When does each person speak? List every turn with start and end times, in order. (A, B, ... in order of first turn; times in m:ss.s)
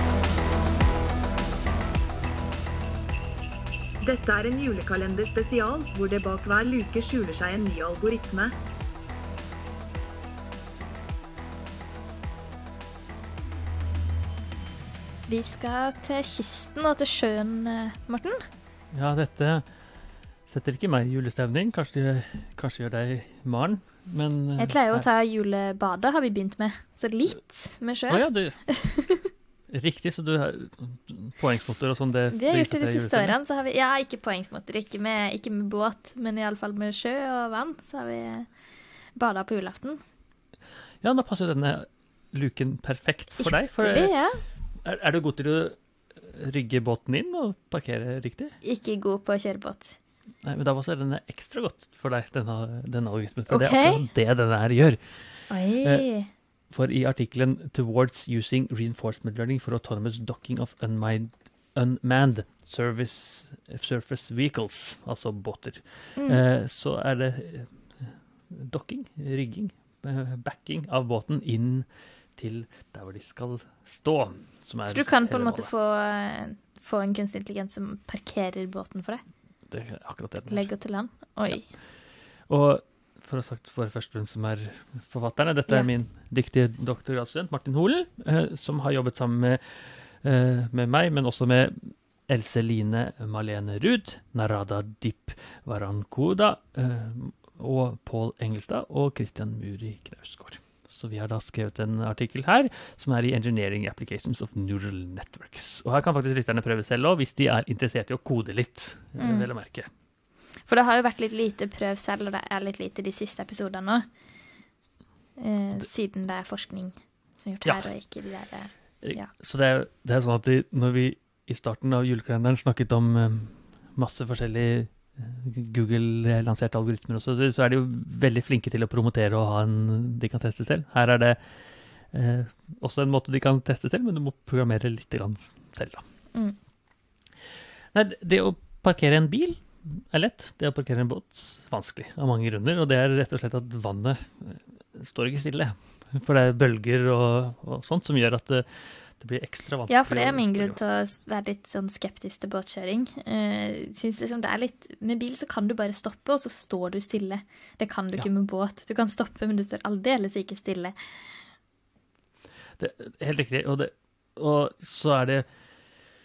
0:04.0-0:08.5 A
0:15.3-0:18.4 B
0:18.9-0:19.6 C
0:20.5-0:25.1 C
0:24.6-0:29.3 B
0:28.1-0:28.6 C
0:29.7-0:33.4 C
0:32.3-0:38.5 B
0:39.1-0:40.0 B
0:41.0-0:44.1 C
0:43.4-0:44.4 B
0:44.8-0:48.6 C
0:48.6-0:50.0 B
0:50.4-0:56.0 C
0:53.5-0:54.0 B
0:55.5-0:56.3 B
0:56.7-1:15.7 C
1:06.2-1:06.4 B
1:14.9-1:19.2 B
1:19.7-1:20.7 C
1:20.5-1:21.7 B
1:22.5-1:49.9 C
1:49.2-1:49.5 B
1:50.6-1:54.0 B
1:55.4-1:59.3 B
1:59.0-2:11.4 C
2:12.1-2:16.0 C
2:17.9-2:30.8 C
2:29.9-2:40.9 B
2:42.8-2:45.4 C